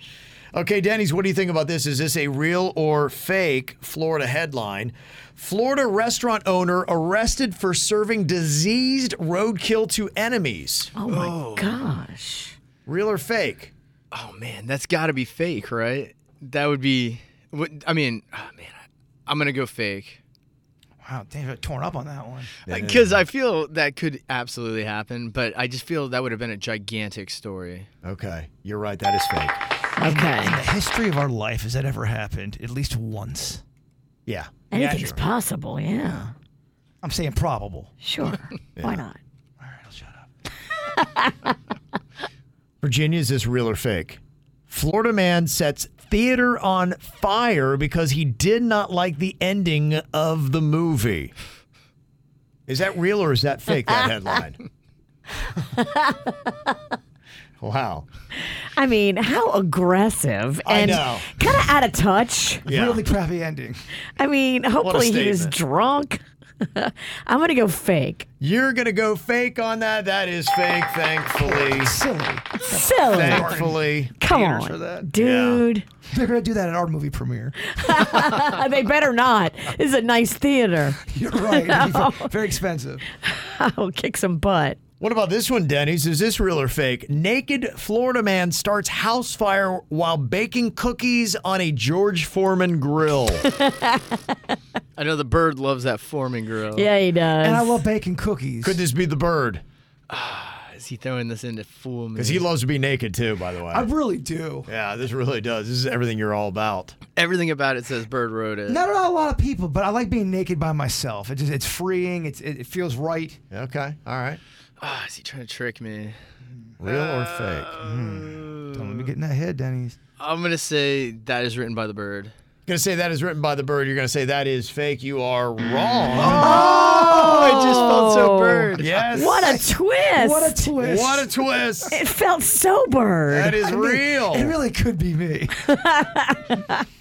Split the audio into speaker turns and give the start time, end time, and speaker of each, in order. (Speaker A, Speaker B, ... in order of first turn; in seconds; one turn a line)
Speaker A: 0.5-10.9
Speaker B: 10.9-12.5
Speaker C: 11.1-11.8
Speaker A: 12.8-13.7
Speaker C: 14.1-20.2
Speaker D: 21.0-22.6
Speaker A: 22.6-23.2
Speaker C: 22.7-27.9
Speaker A: 28.0-29.6
Speaker B: 30.0-30.6
Speaker D: 30.0-33.6
Speaker A: 34.2-35.2
Speaker B: 34.7-36.3
Speaker D: 36.0-36.3
Speaker D: 37.0-37.9
Speaker B: 38.0-39.2
Speaker A: 38.8-39.0
Speaker D: 39.6-40.3
Speaker B: 40.9-41.3
Speaker A: 42.8-51.3
Speaker A: 52.7-54.6
Speaker B: 55.4-56.7
Speaker A: 57.6-58.0
Speaker B: 58.7-62.7
Speaker A: 60.6-61.3
Speaker A: 62.6-63.0
Speaker D: 62.7-63.8
Speaker B: 64.2-68.2
Speaker A: 64.8-65.5
Speaker A: 68.4-72.0
Speaker D: 71.4-75.1
Speaker B: 72.7-73.6
Speaker A: 73.1-74.2
Speaker B: 74.2-75.8
Speaker A: 75.2-75.6
Speaker D: 76.1-77.7
Speaker B: 77.7-82.3
Speaker D: 81.0-83.1
Speaker B: 83.1-84.8
Speaker A: 85.0-93.4
Speaker B: 93.5-94.2
Speaker C: 95.0-96.9
Speaker B: 96.7-97.8
Speaker D: 97.4-98.8
Speaker A: 98.6-99.6
Speaker C: 100.1-102.5
Speaker A: 102.2-103.9
Speaker D: 103.7-104.7
Speaker A: 104.7-107.0
Speaker C: 107.2-108.8
Speaker D: 108.7-113.4
Speaker A: 113.5-114.4
Speaker C: 114.8-116.2
Speaker A: 116.8-117.7
Speaker C: 116.8-118.7
Speaker D: 117.8-120.0
Speaker C: 120.2-122.3
Speaker A: 122.7-126.8
Speaker D: 126.1-127.5
Speaker B: 126.3-130.8
Speaker C: 126.5-129.2
Speaker A: 128.8-129.6
Speaker D: 129.2-131.3
Speaker A: 130.8-131.9
Speaker B: 131.9-133.6
Speaker A: 133.3-134.6
Speaker D: 133.6-135.6
Speaker B: 135.6-136.8